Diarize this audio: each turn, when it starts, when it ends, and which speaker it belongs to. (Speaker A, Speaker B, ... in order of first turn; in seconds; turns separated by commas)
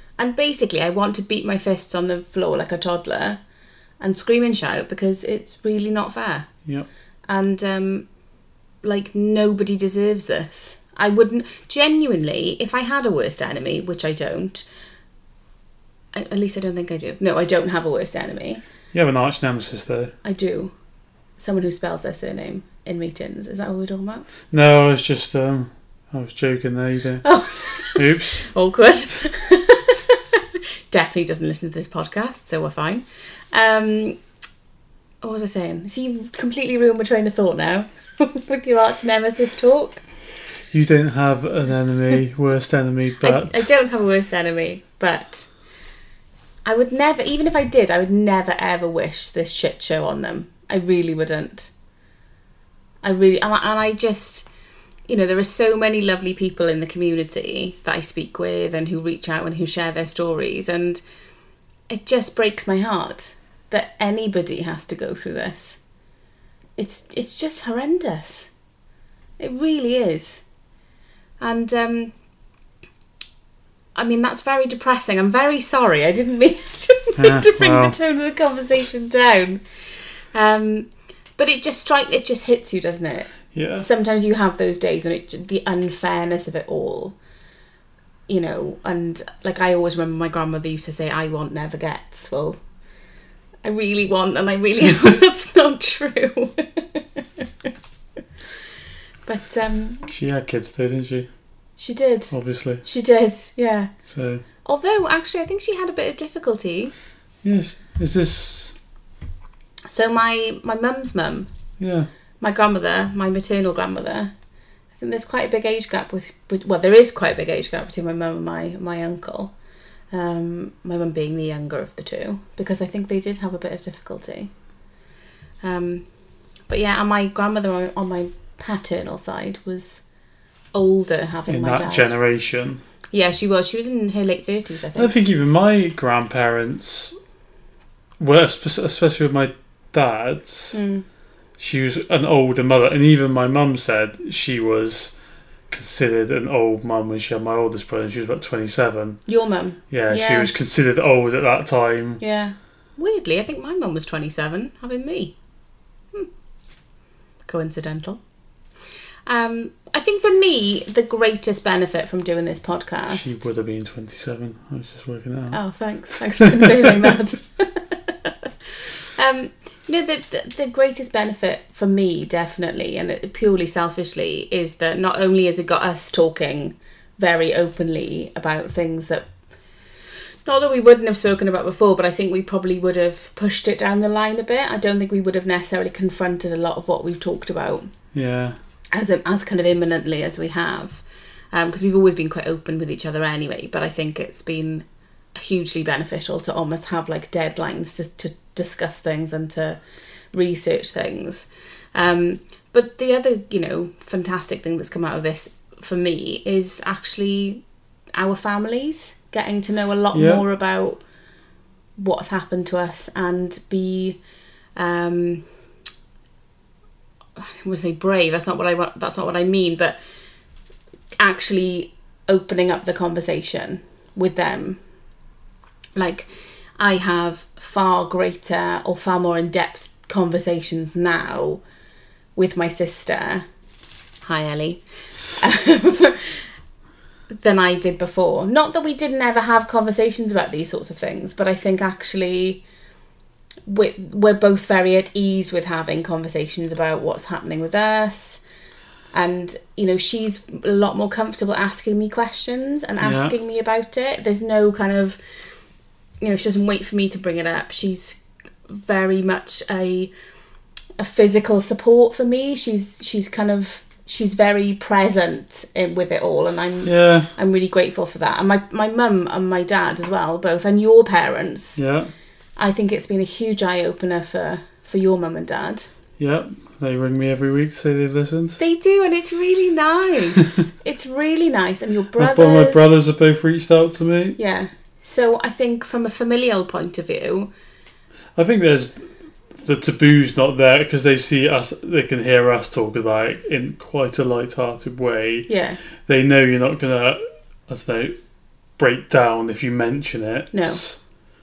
Speaker A: 0.2-3.4, Speaker A: 4.0-6.5, Speaker A: 7.3-8.1, Speaker A: 8.8-14.7, Speaker A: 16.1-18.6, Speaker B: 18.9-20.1, Speaker A: 20.2-20.7, Speaker A: 21.4-24.3, Speaker B: 24.5-27.3, Speaker A: 27.2-34.2, Speaker B: 27.9-28.4, Speaker A: 35.2-40.0, Speaker B: 40.7-43.7, Speaker A: 43.2-45.5, Speaker A: 46.6-51.7, Speaker A: 53.0-54.5, Speaker A: 55.1-61.0, Speaker A: 61.9-65.8, Speaker A: 66.8-68.5, Speaker A: 69.4-70.4, Speaker A: 71.4-72.1, Speaker A: 74.0-87.2, Speaker B: 77.2-78.0, Speaker B: 83.5-83.9, Speaker A: 88.3-92.6, Speaker A: 93.6-97.7, Speaker A: 99.2-100.1, Speaker B: 100.1-101.3, Speaker A: 101.8-103.9, Speaker B: 102.3-102.8, Speaker B: 104.1-104.4, Speaker A: 104.6-106.9, Speaker B: 107.4-108.8, Speaker A: 109.9-111.5, Speaker B: 111.8-112.1, Speaker A: 112.4-114.3, Speaker A: 115.0-119.5, Speaker A: 120.1-124.5, Speaker A: 125.6-126.1, Speaker A: 126.7-130.0, Speaker A: 130.7-132.2, Speaker B: 131.5-132.8, Speaker A: 133.1-135.1, Speaker B: 134.9-137.2, Speaker B: 138.2-140.8, Speaker A: 140.7-141.1, Speaker B: 141.6-145.1, Speaker B: 145.7-149.2, Speaker A: 149.3-150.5, Speaker B: 149.9-152.2, Speaker A: 152.2-155.3, Speaker A: 157.5-158.2, Speaker A: 159.3-163.4, Speaker B: 163.1-165.6, Speaker A: 165.5-179.3, Speaker A: 180.4-187.9, Speaker B: 188.1-188.6, Speaker A: 188.9-199.8, Speaker A: 200.3-207.6, Speaker A: 208.1-211.0, Speaker B: 210.1-210.4, Speaker A: 212.0-214.2, Speaker A: 214.8-215.5, Speaker A: 217.4-220.0, Speaker A: 221.2-224.8, Speaker A: 226.0-231.6, Speaker A: 232.4-233.5, Speaker A: 234.2-236.5, Speaker A: 237.3-242.6, Speaker A: 243.7-248.4, Speaker A: 249.1-255.2, Speaker B: 253.0-253.3, Speaker A: 256.2-260.1, Speaker A: 261.0-271.8, Speaker B: 266.8-267.3, Speaker B: 271.8-272.1, Speaker A: 272.6-275.9, Speaker B: 276.2-278.6, Speaker A: 278.6-282.9, Speaker B: 282.2-284.4, Speaker A: 284.4-287.5, Speaker B: 288.4-298.2, Speaker A: 295.5-295.8, Speaker B: 298.8-301.0, Speaker A: 300.5-300.9